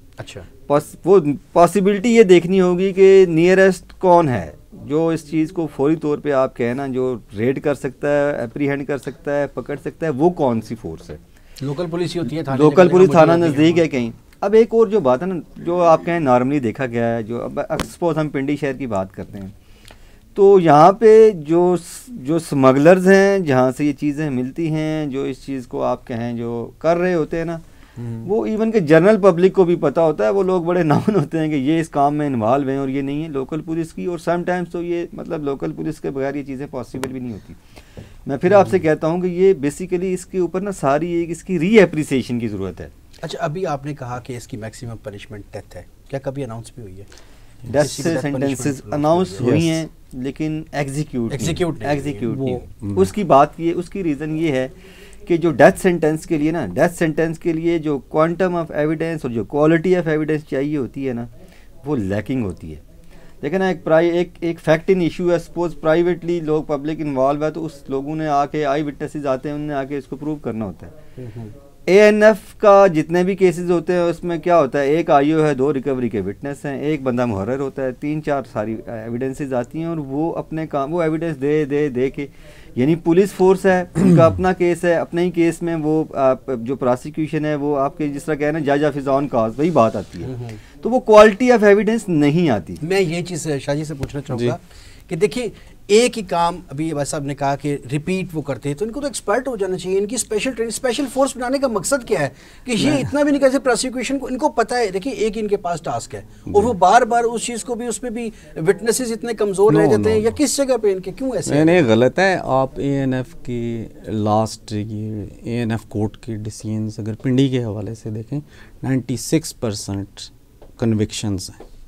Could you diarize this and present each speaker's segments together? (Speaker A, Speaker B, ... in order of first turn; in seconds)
Speaker A: 0.2-0.5, 11.6-13.8, 28.0-28.3, 43.2-47.1, 47.7-49.6, 51.3-52.3, 71.2-71.5, 90.3-90.6, 92.8-111.8
Speaker B: 0.7-11.2, 12.5-19.5, 20.4-27.6, 28.2-37.6, 38.3-42.9, 47.7-54.7, 55.3-61.3, 61.8-62.8, 63.4-70.9, 71.9-92.8
Speaker C: 49.4-49.8, 52.3-53.1, 102.8-103.1, 109.7-110.3, 111.5-121.6